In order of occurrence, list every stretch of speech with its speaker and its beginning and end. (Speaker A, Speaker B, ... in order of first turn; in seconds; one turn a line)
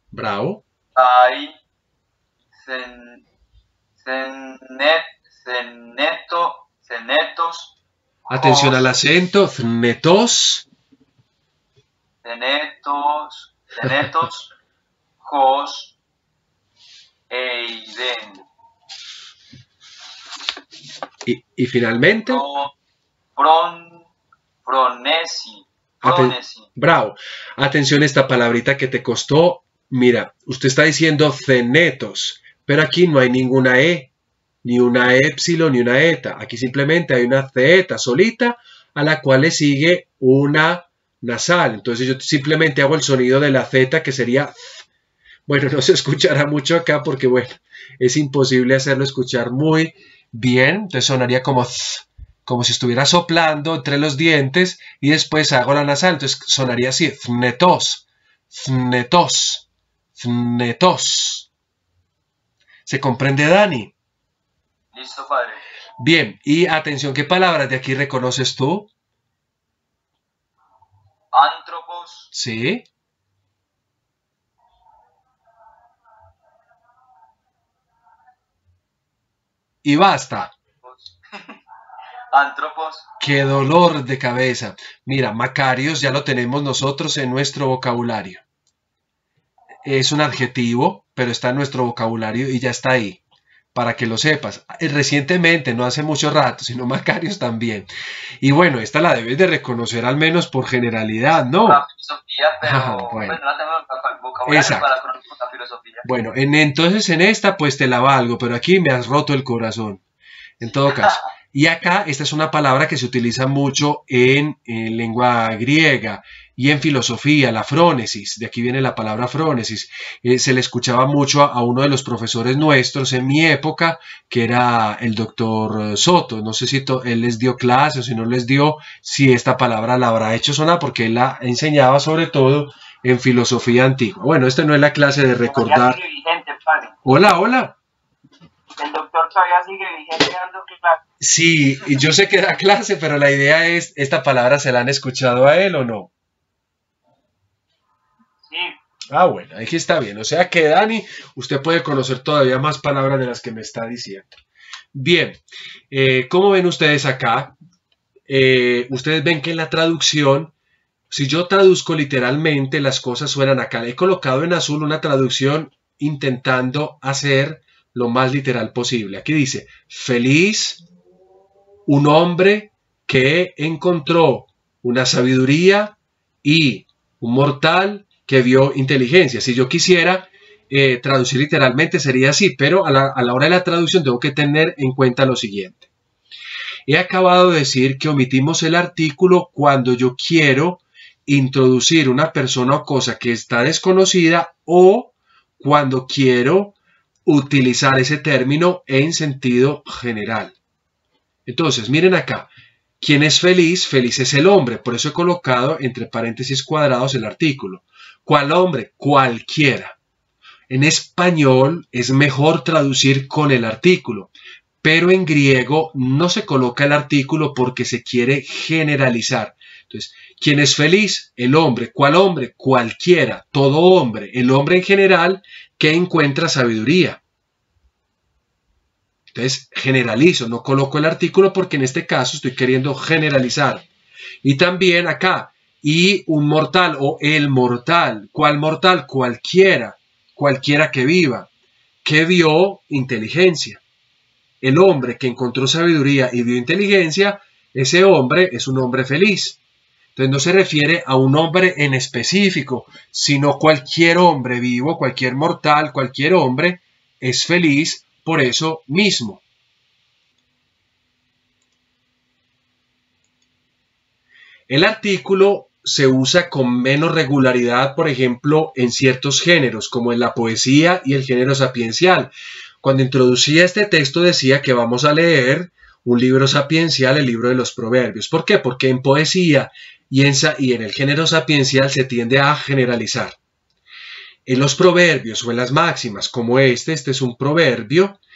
Speaker A: 0.1-0.6
Speaker B: 0.9-1.6
Speaker B: 2.5-3.2
Speaker B: 4.0-7.7
Speaker B: 8.3-8.9
Speaker A: 8.3-10.7
Speaker B: 12.2-14.5
Speaker B: 15.2-16.0
Speaker B: 17.3-18.4
Speaker A: 21.2-22.4
Speaker B: 22.2-22.7
Speaker B: 23.4-24.1
Speaker B: 24.6-26.7
Speaker A: 26.0-34.1
Speaker A: 34.6-44.6
Speaker A: 45.5-61.5
Speaker A: 62.9-63.9
Speaker B: 64.9-65.6
Speaker A: 66.0-68.9
Speaker B: 71.3-72.3
Speaker A: 72.3-72.8
Speaker A: 79.8-80.5
Speaker B: 80.8-81.6
Speaker B: 82.3-83.1
Speaker A: 83.2-88.4
Speaker A: 89.8-93.2
Speaker A: 93.7-97.9
Speaker A: 98.4-101.8
Speaker B: 101.6-106.0
Speaker A: 102.6-103.4
Speaker A: 104.4-104.9
Speaker A: 106.0-110.0
Speaker A: 110.6-136.0
Speaker C: 135.4-136.9
Speaker A: 137.0-137.7
Speaker C: 138.8-141.0
Speaker A: 141.2-146.1
Speaker C: 148.4-148.8
Speaker A: 149.1-154.3
Speaker A: 154.9-157.6
Speaker A: 158.3-160.5
Speaker A: 161.1-170.8
Speaker A: 171.8-185.9
Speaker A: 186.9-200.6
Speaker A: 201.4-210.0
Speaker A: 210.7-214.3
Speaker A: 214.8-227.2
Speaker A: 229.3-233.8
Speaker A: 234.4-241.5
Speaker A: 242.0-243.8
Speaker A: 244.6-249.6
Speaker A: 250.2-259.4
Speaker A: 264.7-283.4
Speaker A: 284.4-288.2